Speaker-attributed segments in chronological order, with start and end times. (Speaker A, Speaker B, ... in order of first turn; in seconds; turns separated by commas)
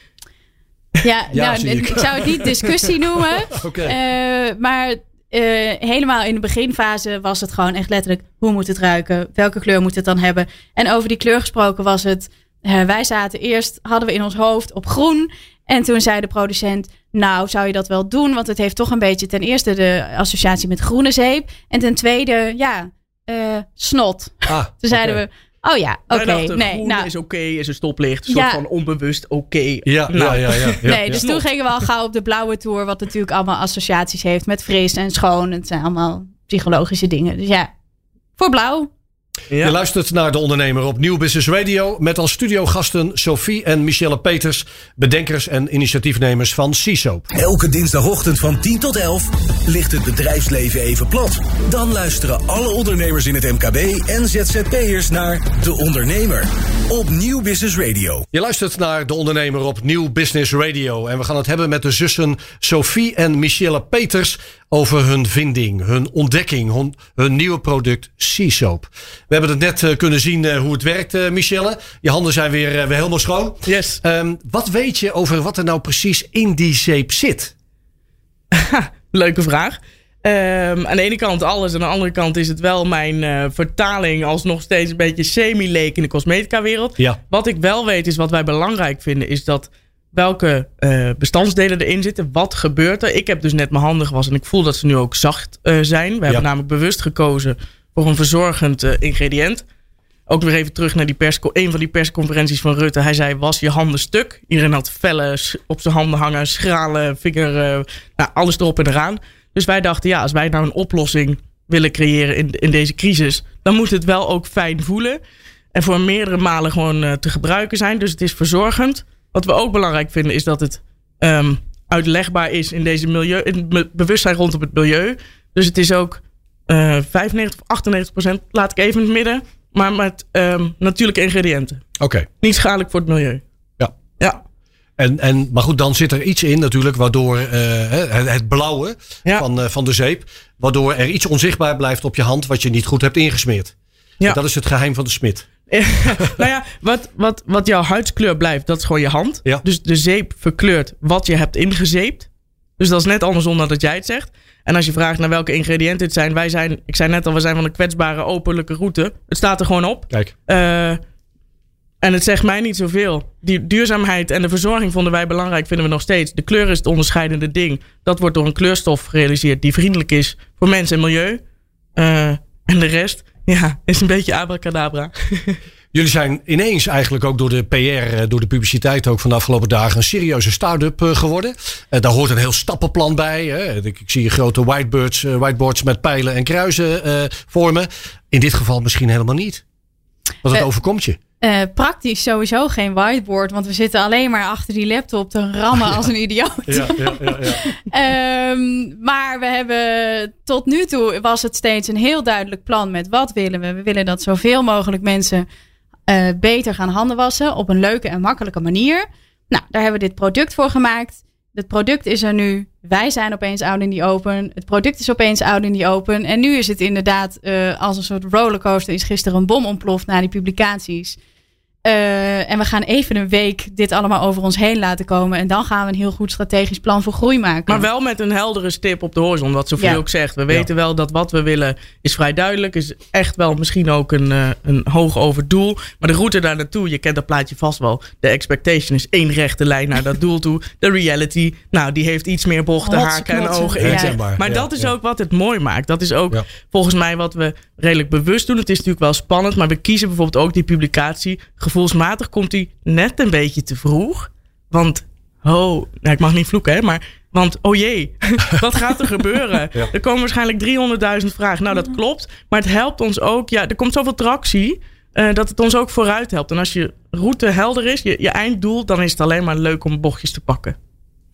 Speaker A: 1.0-27.1, Speaker B: 1.3-2.7, Speaker B: 3.5-4.0, Speaker B: 24.5-25.2, Speaker C: 26.1-31.5, Speaker A: 28.3-28.6, Speaker B: 29.8-31.2, Speaker A: 30.9-37.7, Speaker A: 38.4-38.9, Speaker C: 39.5-39.8, Speaker B: 39.6-47.3, Speaker D: 47.3-58.3, Speaker B: 58.3-77.5, Speaker C: 73.7-74.0, Speaker C: 78.5-99.6, Speaker C: 100.3-115.2, Speaker C: 115.7-131.8, Speaker B: 132.0-132.3, Speaker C: 132.4-133.4, Speaker B: 135.0-145.5, Speaker C: 145.7-152.3, Speaker C: 152.8-161.0, Speaker C: 162.0-171.4, Speaker C: 171.9-175.6, Speaker B: 175.9-189.6, Speaker B: 190.4-191.2, Speaker A: 191.4-205.5, Speaker B: 196.7-197.6, Speaker A: 206.1-221.2, Speaker A: 221.8-227.9, Speaker C: 227.7-270.8, Speaker A: 242.8-244.2, Speaker B: 243.8-244.9